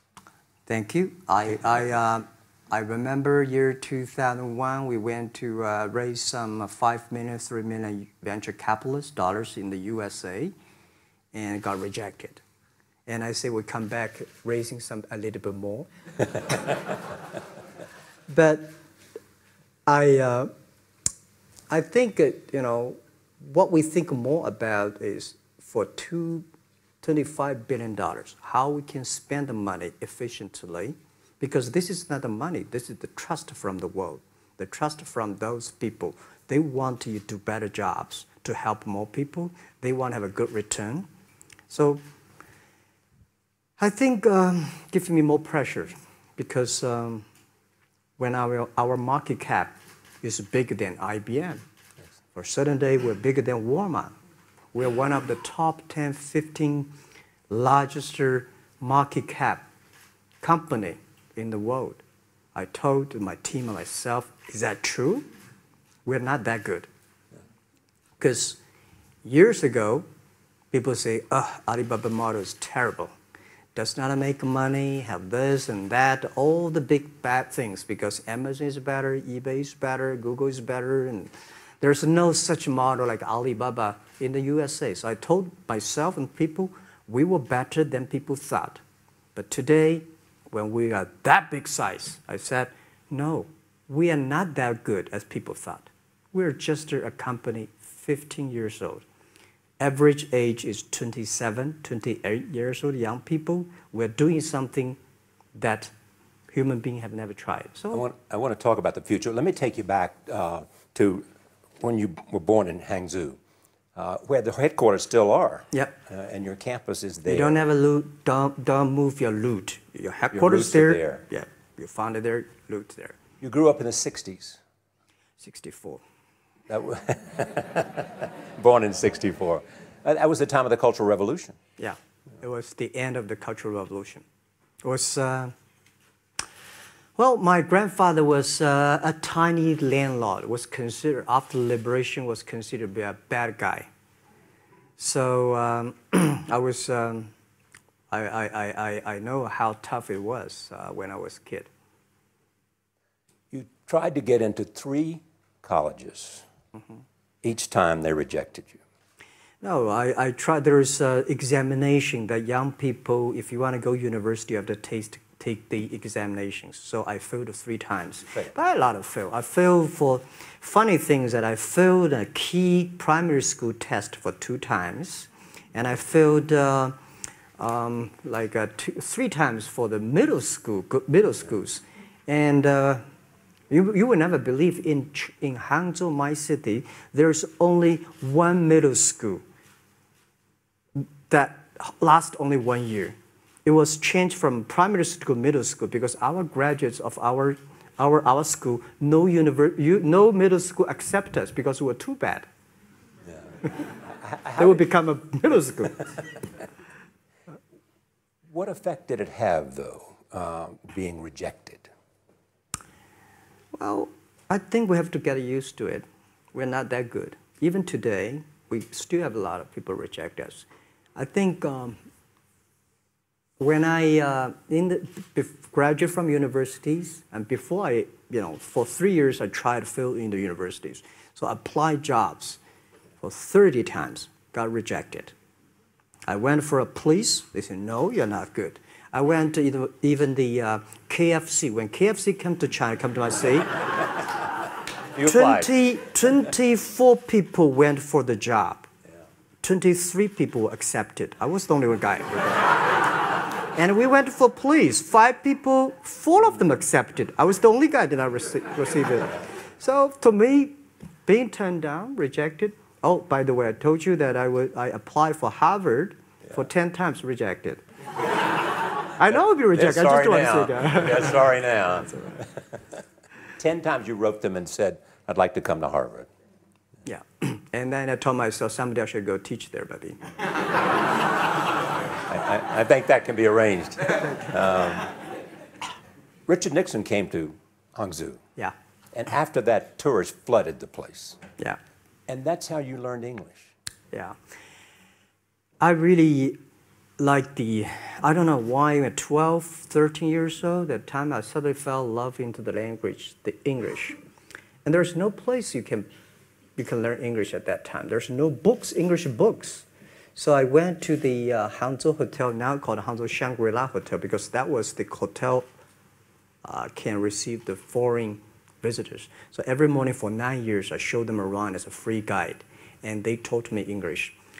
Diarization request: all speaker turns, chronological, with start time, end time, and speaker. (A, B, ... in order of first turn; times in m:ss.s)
0:00.7-0:10.5 A
0:11.3-0:12.4 A
0:13.1-0:15.9 A
0:18.3-0:18.8 A
0:19.9-0:20.5 A
0:21.7-0:26.4 A
0:27.0-0:41.1 A
0:41.7-0:42.0 A
0:43.8-0:47.2 A
0:48.2-0:51.6 A
0:52.3-0:54.1 A
0:54.7-0:56.9 A
0:57.5-0:59.6 A
1:00.4-1:02.0 A
1:02.5-1:05.3 A
1:06.0-1:06.9 A
1:08.2-1:08.6 A
1:09.2-1:10.0 A
1:10.7-1:13.1 A
1:13.7-1:28.8 A
1:29.3-1:39.0 A
1:39.8-1:45.0 A
1:45.5-1:45.9 A
1:46.5-1:48.0 A
1:47.9-1:51.2 B
1:51.8-1:53.4 B
1:54.0-1:57.6 B
1:57.3-2:03.2 A
2:00.3-2:01.2 B
2:03.4-2:04.6 B
2:05.4-2:06.0 A
2:06.7-2:11.6 B
2:11.8-2:14.2 A
2:14.8-2:15.5 A
2:17.2-2:23.9 A
2:25.0-2:27.3 A
2:28.1-2:31.7 A
2:33.5-2:36.4 B
2:37.4-2:38.8 B
2:39.6-2:56.9 A
2:57.6-3:03.0 A
3:03.7-3:09.4 A
3:11.0-3:22.5 A
3:24.2-3:24.8 B
3:24.6-3:26.1 A
3:28.5-3:31.9 B
3:33.7-3:42.0 A
3:43.6-3:52.6 A
3:53.2-3:55.3 A
3:56.3-4:03.7 A
4:05.1-4:05.7 B
4:05.2-4:08.9 A
4:09.6-4:12.7 A
4:13.7-4:27.8 A
4:29.1-4:31.5 A
4:29.3-4:32.8 B
4:33.6-4:36.3 B
4:37.0-4:40.2 A
4:42.3-4:45.1 B
4:46.5-4:48.4 B
4:49.1-4:51.4 B
4:52.3-4:53.7 B
4:55.8-4:56.6 A
4:57.2-5:04.2 A
5:04.8-5:06.1 A
5:06.8-5:15.7 A
5:16.6-5:24.4 A